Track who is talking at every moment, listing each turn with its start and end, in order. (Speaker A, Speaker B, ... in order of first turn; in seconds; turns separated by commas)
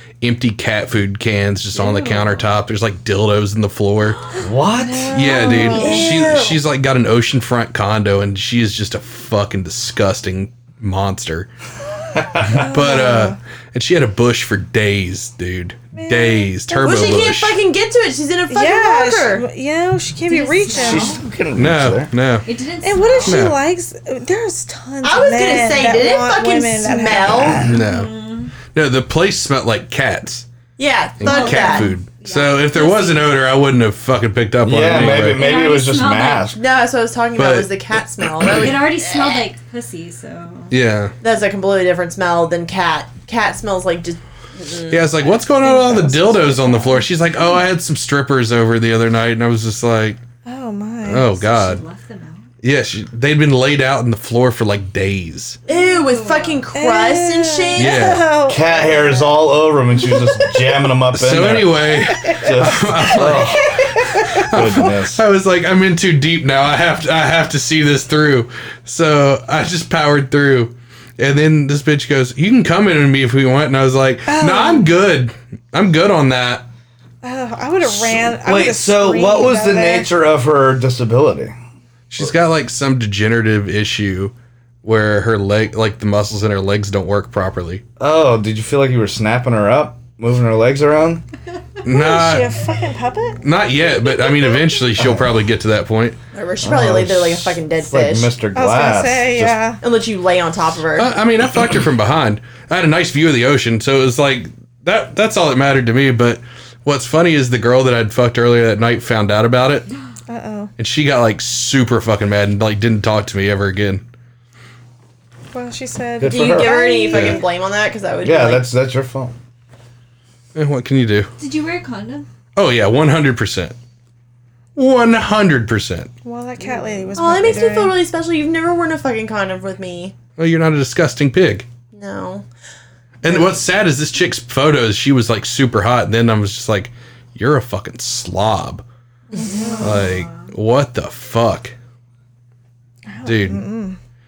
Speaker A: 0.2-4.2, Speaker B: 1.8-2.3, Speaker C: 4.4-5.4, Speaker D: 4.8-6.2, Speaker A: 5.1-11.5, Speaker E: 5.6-6.6, Speaker C: 12.1-12.6, Speaker D: 12.5-13.4, Speaker A: 12.6-17.6, Speaker D: 15.9-17.0, Speaker E: 16.8-19.4, Speaker D: 18.5-21.1, Speaker B: 20.2-21.3, Speaker C: 20.7-22.1, Speaker A: 21.6-22.4, Speaker B: 22.4-23.5, Speaker D: 22.8-27.7, Speaker A: 23.2-23.6, Speaker E: 25.0-27.7, Speaker A: 27.6-30.4, Speaker B: 27.6-28.5, Speaker E: 30.8-31.9, Speaker A: 31.2-35.5, Speaker B: 31.2-33.4, Speaker C: 34.6-36.6, Speaker B: 35.2-36.6, Speaker E: 36.5-39.4, Speaker A: 37.4-37.7, Speaker B: 38.6-40.7, Speaker A: 40.7-41.1, Speaker E: 41.2-46.8, Speaker A: 44.9-50.2, Speaker D: 45.6-46.7, Speaker D: 50.5-51.3, Speaker A: 51.0-51.8, Speaker B: 51.3-52.5, Speaker A: 52.6-55.6, Speaker B: 55.7-56.7, Speaker E: 55.7-58.1, Speaker D: 56.7-58.9, Speaker A: 57.8-58.2, Speaker C: 58.5-65.2, Speaker A: 61.1-76.7, Speaker D: 62.1-62.4, Speaker D: 63.9-64.4, Speaker D: 74.3-74.9, Speaker D: 77.2-80.1, Speaker C: 77.8-81.5, Speaker A: 82.1-87.8, Speaker C: 88.0-91.2, Speaker A: 91.8-92.5, Speaker D: 91.9-93.4, Speaker A: 93.4-96.2, Speaker C: 95.0-95.3, Speaker E: 96.3-98.3, Speaker C: 96.6-99.6, Speaker D: 98.5-99.8, Speaker E: 99.8-101.1, Speaker A: 101.0-109.9, Speaker D: 110.3-110.7, Speaker A: 110.8-114.0, Speaker D: 115.5-117.4, Speaker C: 116.2-117.4, Speaker E: 116.3-118.7, Speaker C: 118.2-119.4, Speaker A: 120.5-121.3, Speaker B: 121.4-122.3, Speaker A: 122.5-123.8, Speaker A: 124.8-126.1, Speaker D: 126.2-127.9, Speaker E: 127.2-130.1, Speaker A: 130.4-131.7, Speaker E: 131.9-132.4, Speaker A: 133.2-138.8, Speaker E: 133.3-133.5, Speaker D: 139.3-140.0, Speaker B: 139.4-140.5, Speaker A: 139.8-141.8, Speaker D: 143.1-144.0, Speaker A: 143.2-143.6